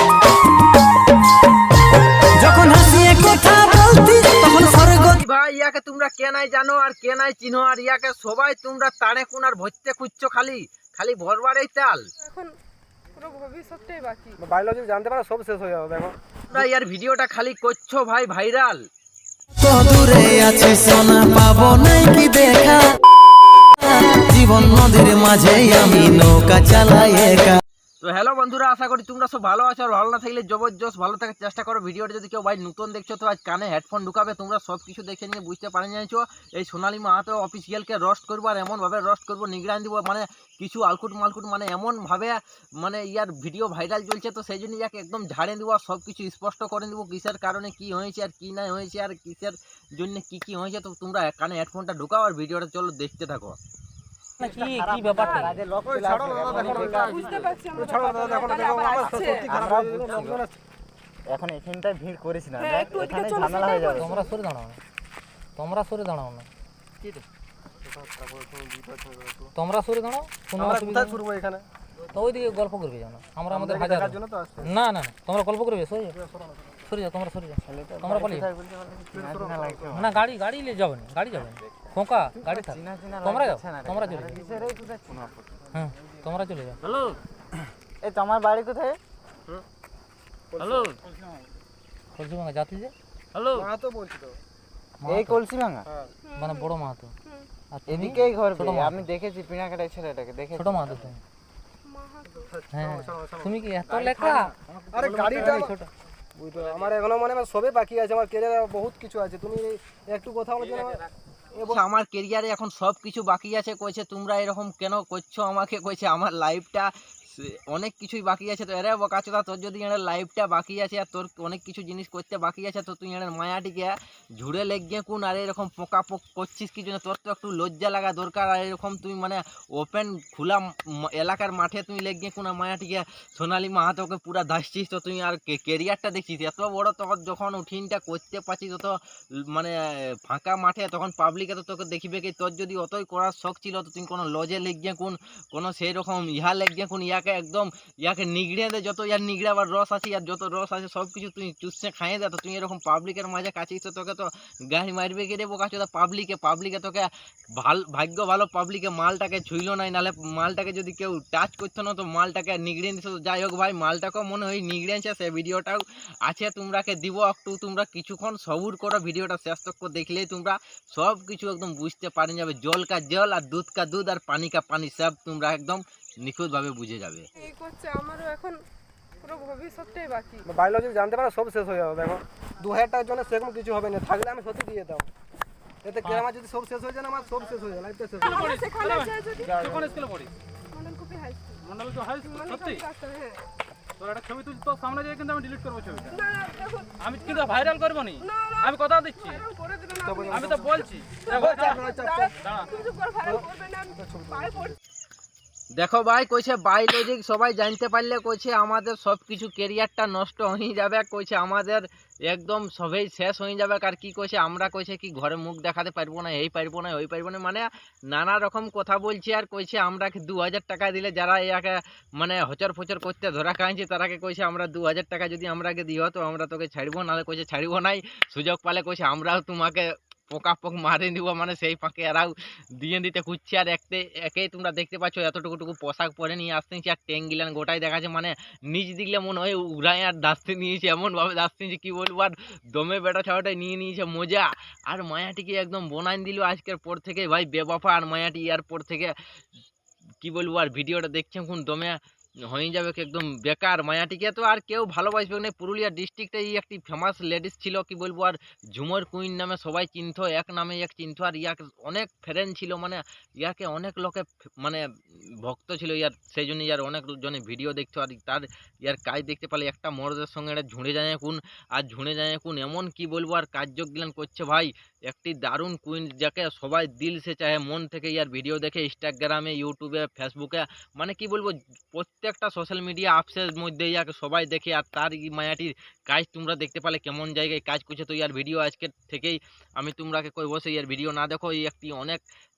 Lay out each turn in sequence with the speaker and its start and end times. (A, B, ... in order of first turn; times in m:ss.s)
0:02.4-0:05.1 A
0:04.8-0:12.1 B
0:12.2-0:12.5 C
0:13.2-0:14.4 C
0:14.4-0:16.1 D
0:16.5-0:18.8 B
0:19.6-0:22.9 A
0:24.1-0:27.6 A
0:28.0-0:53.6 B
0:54.4-0:55.5 E
0:54.4-0:57.6 F
0:55.1-0:55.6 C
0:55.9-1:00.5 D
0:56.8-0:59.5 C
0:59.0-1:00.4 F
1:01.3-1:04.1 F
1:02.6-1:04.3 C
1:04.0-1:04.8 E
1:05.6-1:06.5 E
1:08.0-1:09.5 D
1:09.5-1:11.2 E
1:10.6-1:11.6 D
1:12.1-1:16.2 E
1:13.5-1:14.7 D
1:16.8-1:18.5 E
1:17.6-1:20.2 F
1:19.1-1:20.0 D
1:19.9-1:24.4 E
1:22.3-1:25.4 F
1:25.7-1:26.8 E
1:28.0-1:29.0 F
1:30.5-1:30.9 D
1:32.2-1:32.9 E
1:33.5-1:34.4 D
1:35.0-1:35.4 E
1:35.0-1:35.9 F
1:36.3-1:36.7 C
1:36.3-1:37.1 E
1:37.7-1:39.0 E
1:37.9-1:41.1 F
1:40.6-1:41.2 E
1:41.8-1:42.5 C
1:42.4-1:43.5 D
1:42.7-1:44.5 E
1:44.9-1:45.7 D
1:45.1-1:45.9 E
1:46.4-1:51.0 D
1:51.6-2:18.9 B
2:19.5-2:57.3 B
2:57.4-2:58.6 C
2:59.2-3:00.5 C
3:00.4-3:05.1 D
3:05.8-3:08.4 D
3:08.2-3:09.7 C
3:09.7-3:10.3 G
3:10.7-3:13.4 C
3:11.8-3:12.2 G
3:14.0-3:16.1 G
3:16.1-3:20.6 C
3:17.3-3:18.2 G
3:18.8-3:19.3 G
3:20.0-3:22.4 D
3:20.6-3:21.1 G
3:21.2-3:24.7 C
3:23.2-3:24.7 D
3:25.8-4:09.1 B
4:10.2-4:12.0 B
4:12.5-4:52.2 B